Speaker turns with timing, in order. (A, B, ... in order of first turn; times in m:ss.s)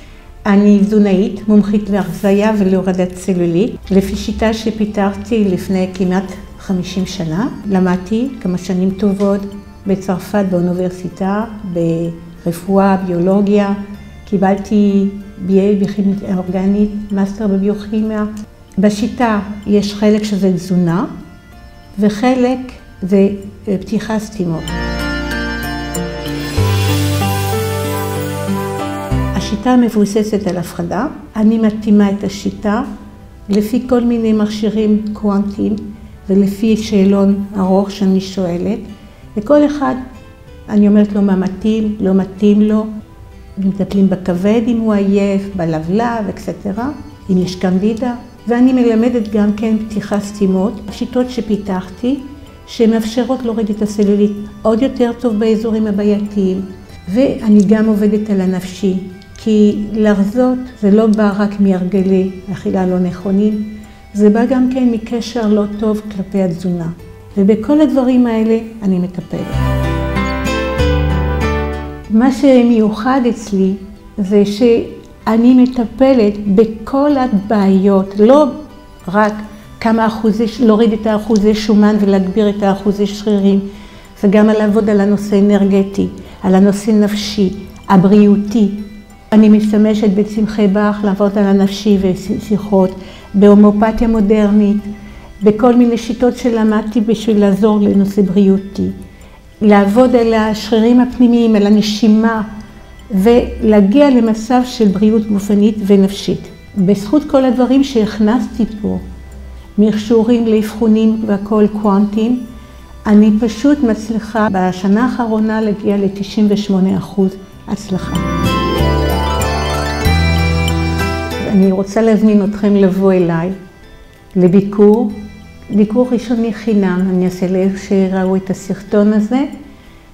0:00.4-0:21.1 A
0:22.0-0:24.8 A
0:29.3-0:32.8 A
0:33.5-0:38.8 A
0:39.4-0:40.0 A
0:40.7-0:42.9 A
0:43.6-1:09.6 A
1:12.1-1:18.5 A
1:19.0-1:23.6 A
1:24.2-1:34.8 A
1:35.4-1:38.9 A
1:39.6-1:42.5 A
1:43.1-1:49.0 A
1:49.8-1:52.4 A
1:53.0-1:58.2 A
2:01.4-2:03.6 A
2:04.3-2:09.5 A